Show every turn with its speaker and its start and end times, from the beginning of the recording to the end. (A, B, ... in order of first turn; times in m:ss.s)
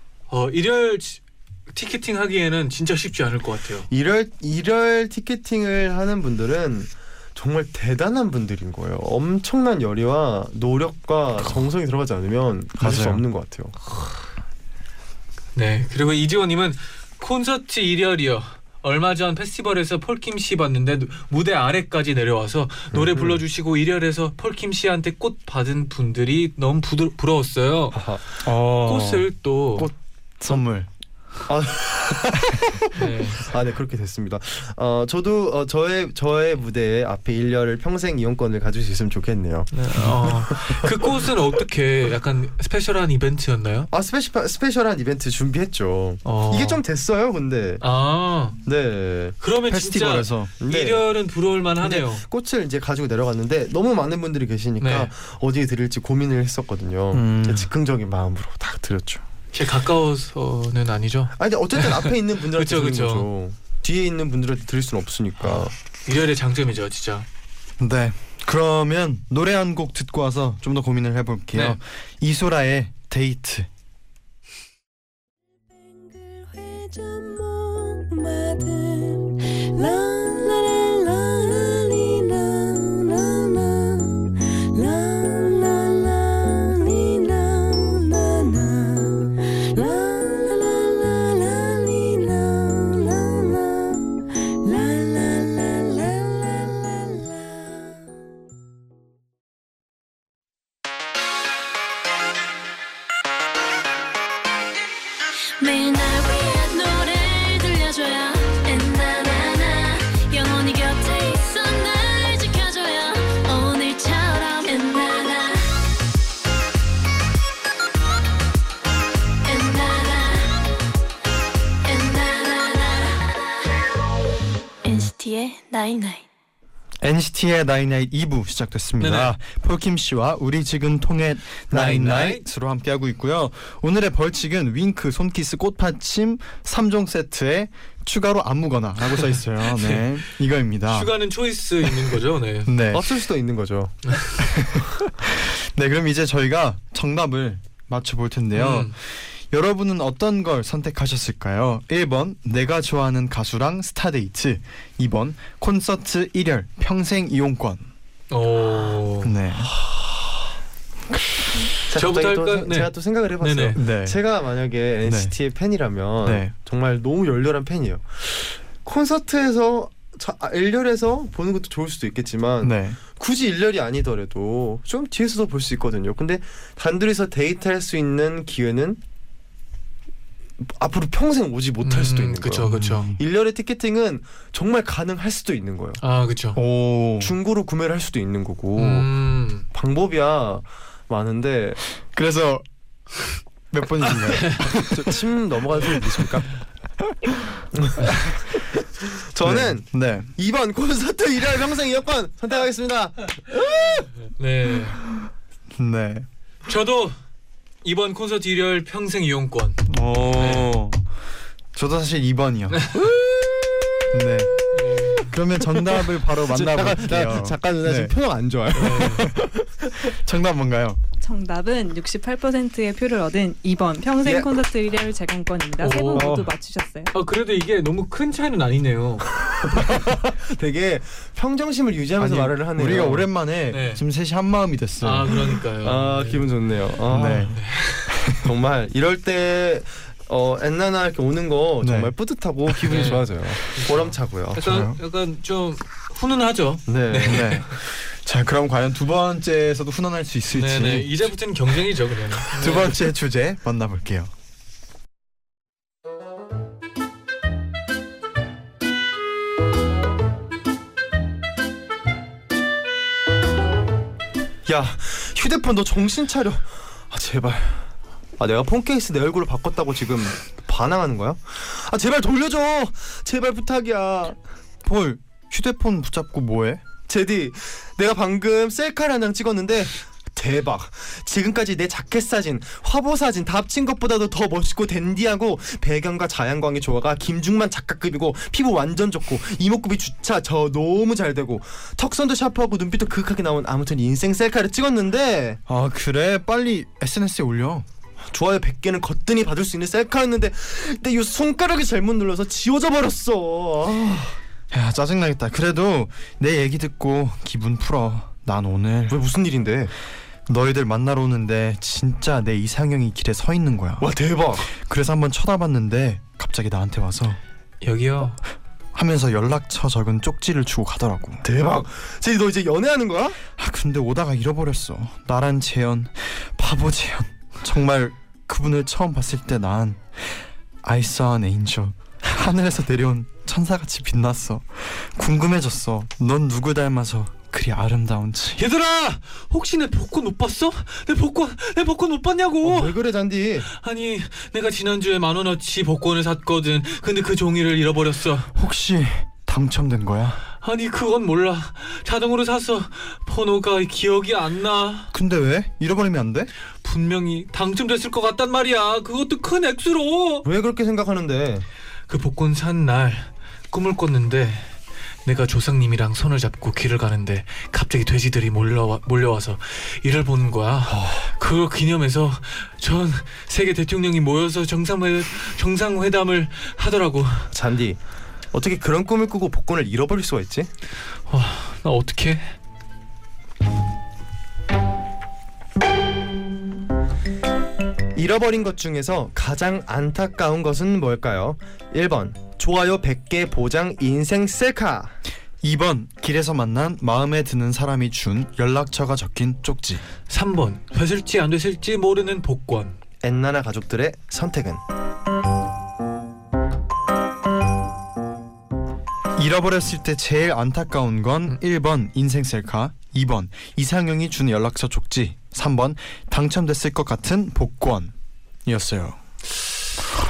0:00.3-0:03.9 A
0:03.9-0:13.7 B
0:12.8-0:13.2 C
0:15.5-0:28.0 A
0:22.9-0:23.4 B
0:27.9-0:28.2 B
0:28.4-0:30.9 C
0:28.7-0:29.9 A
0:31.5-0:32.6 B
0:32.5-0:33.0 C
0:33.0-0:33.4 A
0:33.4-0:40.9 B
0:39.7-0:43.9 A
0:43.9-0:47.8 B
0:46.2-0:46.8 A
0:47.8-0:48.6 A
0:48.6-0:49.4 B
0:49.4-0:52.2 A
0:49.7-0:50.5 C
0:50.6-0:51.1 B
0:51.8-0:59.2 B
0:54.8-0:55.1 A
0:57.1-0:57.7 C
0:59.5-1:03.3 A
1:01.4-1:05.7 B
1:05.4-1:07.2 A
1:07.8-1:13.7 C
1:15.8-1:24.2 D
1:24.7-1:34.1 D
1:34.6-1:37.5 D
1:45.6-1:55.6 D
1:59.4-2:00.5 D
2:01.8-2:03.4 D
2:04.8-2:06.2 D
2:07.0-2:21.1 C
2:09.0-2:09.3 A
2:11.7-2:12.4 A
2:19.6-2:20.2 A
2:20.9-2:22.7 A
2:22.6-2:23.1 C
2:22.9-2:23.9 B
2:24.4-2:37.9 C
2:28.5-2:28.9 A
2:38.3-2:39.4 A
2:39.2-2:39.7 C
2:41.9-2:43.8 A
2:41.9-2:59.0 B
2:43.7-2:44.2 C
2:45.0-2:45.3 C
2:46.2-2:46.5 C
2:52.6-2:53.0 C
3:00.6-3:06.0 B
3:01.8-3:03.1 A
3:02.6-3:03.2 C
3:06.0-3:06.6 A
3:06.5-3:07.3 C
3:07.2-3:09.1 B
3:08.8-3:09.6 A
3:09.7-3:11.8 B
3:12.1-3:12.6 C
3:13.7-3:15.1 C
3:14.3-3:14.6 A
3:14.7-3:16.5 B
3:17.0-3:17.3 C
3:17.7-3:18.4 B
3:19.1-3:24.0 B
3:19.4-3:20.3 C
3:24.2-3:25.0 A
3:25.8-3:26.3 C
3:26.6-3:27.2 A
3:27.8-3:29.8 A
3:29.9-3:31.0 C
3:30.4-3:30.7 A
3:31.7-3:33.0 C
3:34.1-3:34.6 C
3:34.7-3:35.3 A
3:35.2-3:38.1 C
3:36.3-3:39.5 B
3:38.7-3:39.3 A
3:39.0-3:41.0 C
3:41.2-3:47.1 E
3:44.2-3:44.5 B
3:45.8-3:46.4 A
3:46.1-3:46.5 C
3:47.1-3:49.3 A
3:49.4-3:53.3 B
3:52.2-3:55.5 C
3:53.7-3:54.0 A
3:55.0-3:56.5 A
3:55.8-3:57.5 B
3:57.1-3:58.4 C
3:57.5-3:58.1 A
3:58.4-4:04.6 B
4:01.8-4:02.1 C
4:02.7-4:03.2 C
4:02.9-4:07.7 A
4:04.6-4:05.0 C
4:06.9-4:07.5 B
4:07.2-4:11.3 C
4:10.5-4:13.0 A
4:12.5-4:14.3 C
4:24.6-4:27.8 B
4:28.4-4:34.4 B
4:34.8-4:36.8 C
4:37.1-4:55.6 B
4:55.7-4:57.8 C
4:58.3-5:04.4 B
5:04.7-5:09.2 C
5:09.1-5:09.9 B
5:10.5-5:14.1 C
5:14.0-5:14.7 B
5:14.6-5:17.4 C
5:17.8-5:18.4 A
5:18.9-5:21.4 C
5:21.4-5:23.4 B
5:23.6-5:38.6 C
5:38.6-5:42.9 A
5:42.6-5:43.7 B
5:43.6-5:48.5 A
5:48.5-5:50.4 C
5:50.6-5:55.1 A
5:55.1-5:56.5 C
5:56.8-6:00.5 A
6:00.4-6:01.6 B
6:02.1-6:04.7 A
6:05.2-6:17.5 A
6:10.9-6:11.3 B
6:17.5-6:18.0 B
6:18.5-6:20.7 B
6:21.3-6:22.5 A
6:28.1-6:35.1 B
6:35.6-6:40.0 C
6:40.3-6:43.0 A
6:43.2-6:44.8 B
6:49.4-6:58.1 C
6:58.6-6:59.2 C